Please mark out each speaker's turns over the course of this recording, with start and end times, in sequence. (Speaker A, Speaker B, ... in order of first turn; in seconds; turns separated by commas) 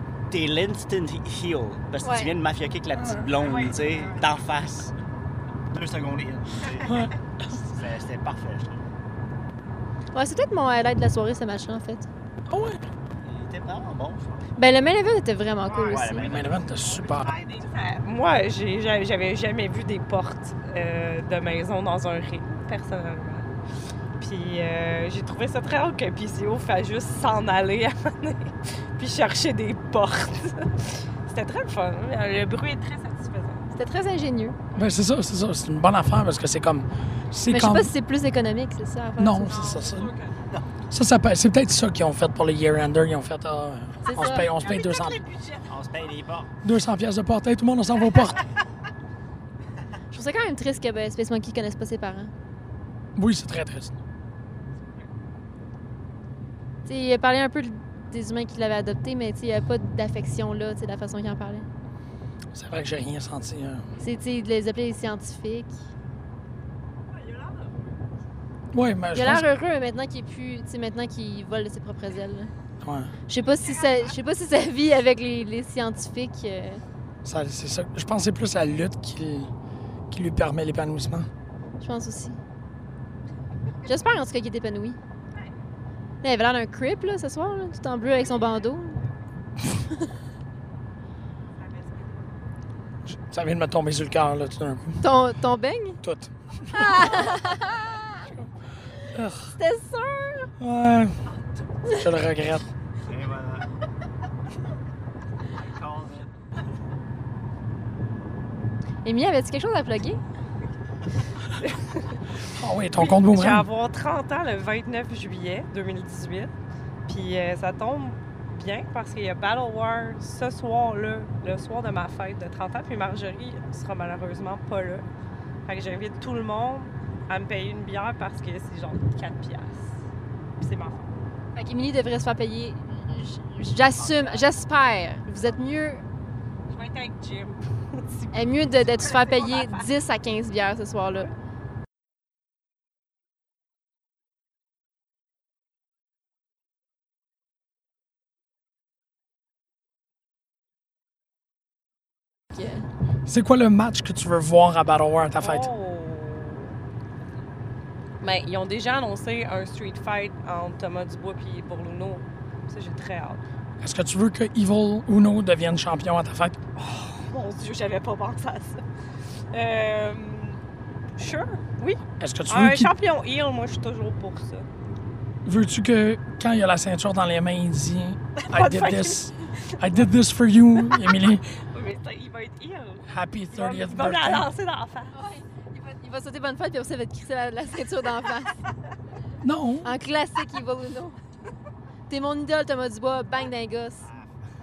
Speaker A: 0.3-4.9, Speaker B: 2.0-2.3, Speaker C: 2.9-3.7, Speaker D: 3.4-4.2, Speaker A: 5.7-8.8, Speaker B: 10.1-12.1, Speaker C: 12.5-12.8, Speaker A: 13.2-14.5, Speaker B: 14.6-16.4, Speaker D: 15.6-16.1, Speaker A: 15.9-16.7, Speaker C: 16.2-17.4, Speaker D: 16.8-23.5, Speaker D: 24.2-33.6, Speaker B: 33.7-34.5, Speaker C: 34.7-37.9, Speaker B: 37.5-39.6, Speaker C: 39.2-40.1, Speaker D: 39.4-40.4, Speaker C: 40.9-45.2, Speaker B: 44.0-44.5, Speaker D: 44.4-45.7, Speaker A: 45.7-46.5, Speaker C: 46.6-48.4, Speaker B: 50.1-52.3, Speaker C: 53.1-53.9, Speaker B: 56.9-61.6, Speaker C: 62.5-63.9, Speaker B: 64.0-65.7, Speaker D: 67.1-68.0, Speaker C: 68.7-69.5, Speaker B: 69.1-72.5, Speaker C: 72.8-73.1, Speaker B: 73.3-76.8, Speaker D: 73.4-74.1, Speaker C: 77.2-79.5, Speaker C: 80.1-81.3, Speaker B: 81.8-82.4, Speaker B: 83.8-85.0, Speaker B: 86.2-89.0, Speaker D: 88.2-88.6, Speaker D: 91.6-92.3, Speaker C: 93.1-95.0, Speaker B: 95.0-96.0, Speaker C: 96.0-97.2, Speaker B: 96.7-98.2, Speaker C: 99.1-99.5, Speaker B: 99.5-100.5, Speaker C: 100.6-101.2, Speaker C: 101.8-102.7, Speaker A: 103.0-103.6, Speaker A: 105.6-106.3, Speaker B: 109.0-110.2, Speaker C: 112.5-113.7, Speaker D: 112.9-116.5, Speaker D: 117.1-125.1, Speaker D: 125.7-130.0, Speaker D: 130.6-131.1, Speaker B: 131.5-136.0, Speaker D: 136.7-138.4, Speaker B: 138.3-141.3, Speaker D: 139.0-139.9, Speaker B: 152.5-152.8, Speaker C: 153.2-155.7, Speaker D: 155.4-156.7, Speaker D: 158.2-163.4, Speaker C: 163.8-166.6, Speaker D: 166.8-168.8, Speaker D: 169.5-170.6, Speaker D: 171.2-174.7, Speaker C: 172.2-172.9, Speaker C: 175.4-181.4, Speaker D: 178.4-179.8, Speaker D: 180.9-181.2, Speaker D: 181.7-185.2, Speaker C: 183.1-184.5, Speaker B: 185.1-188.5, Speaker C: 189.4-189.9, Speaker B: 189.8-191.2, Speaker B: 192.1-194.0